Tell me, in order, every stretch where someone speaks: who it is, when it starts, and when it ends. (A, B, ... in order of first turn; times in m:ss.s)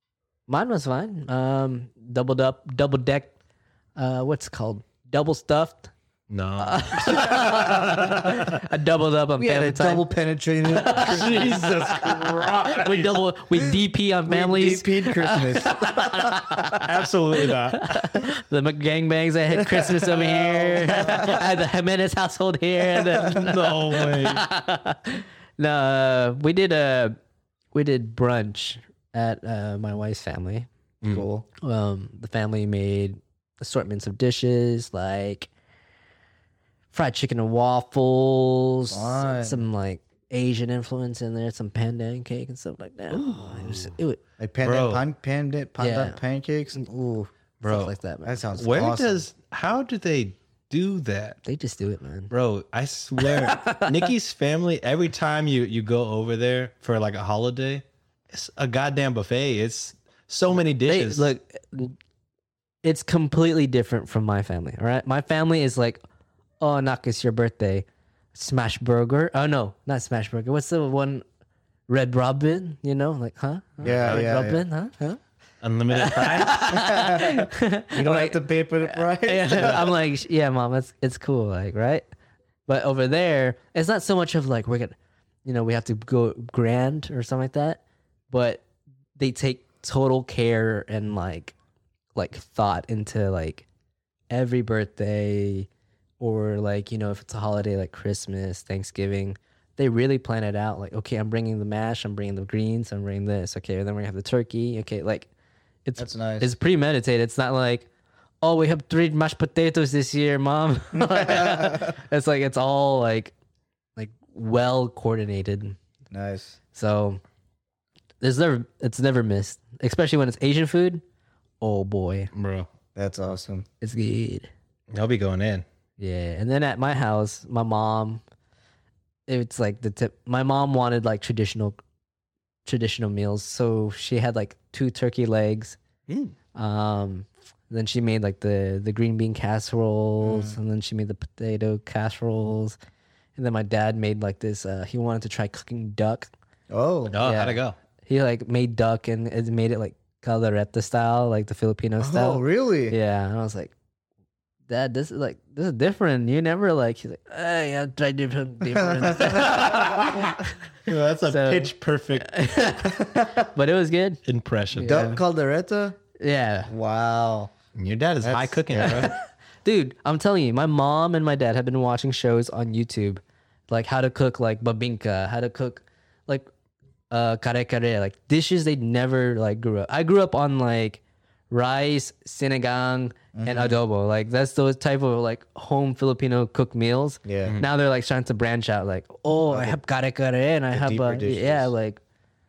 0:00.5-0:03.3 A
0:04.0-0:05.9 A
0:06.3-0:08.6 B
0:06.6-0:10.1 A
0:09.4-0:12.1 C
0:10.7-0:16.9 A
0:10.8-0:13.2 B
0:14.3-0:16.6 C
0:16.7-0:18.0 B
0:17.4-0:27.2 A
0:19.8-0:21.4 C
0:23.2-0:24.4 B
0:27.7-0:30.7 A
0:31.1-0:31.5 C
0:31.6-0:35.5 A
0:36.9-0:44.2 A
0:38.9-0:39.6 C
0:43.1-0:43.9 B
0:44.4-0:47.3 C
0:44.6-0:45.0 B
0:45.8-0:46.2 A
0:47.6-0:47.9 B
0:47.6-0:48.4 A
0:48.3-0:49.3 C
0:48.5-0:51.4 B
0:51.4-0:52.3 A
0:52.3-1:01.3 B
0:53.2-0:54.1 A
1:00.8-1:02.0 A
1:02.8-1:06.0 A
1:06.6-1:11.2 A
1:11.9-1:15.2 A
1:13.8-1:14.2 B
1:13.8-1:14.6 C
1:15.6-1:16.9 B
1:15.9-1:22.1 A
1:16.7-1:19.9 C
1:22.7-1:28.6 A
1:29.2-1:31.6 A
1:32.2-1:33.7 A
1:34.3-1:35.7 A
1:36.2-1:45.3 A
1:45.8-1:47.9 A
1:46.0-1:46.5 C
1:48.4-1:53.3 A
1:51.0-1:51.9 C
1:54.0-1:55.8 A
1:56.1-1:56.6 C
1:56.7-1:57.2 A
1:58.2-2:01.0 A
2:01.6-2:02.3 A
2:02.3-2:02.7 B
2:03.0-2:03.7 C
2:03.8-2:04.5 A
2:04.9-2:05.6 B
2:06.0-2:08.2 A
2:09.3-2:11.8 A
2:12.6-2:15.8 A
2:16.1-2:16.4 B
2:16.6-2:22.8 A
2:20.2-2:20.6 C
2:23.4-2:26.3 A
2:26.7-2:27.2 C
2:27.1-2:27.8 B
2:27.2-2:33.7 A
2:32.0-2:33.0 C
2:34.7-2:40.3 A
2:38.9-2:39.6 C
2:39.2-2:42.4 B
2:41.3-2:44.2 A
2:44.3-2:45.1 B
2:44.7-2:45.2 A
2:44.8-2:46.0 C
2:46.2-2:46.7 A
2:46.7-2:47.5 C
2:47.8-2:49.1 B
2:48.2-2:49.1 C
2:48.8-2:56.5 A
2:57.1-3:12.0 A
3:03.3-3:03.8 C
3:07.2-3:07.6 C
3:09.3-3:09.8 C
3:10.7-3:11.7 C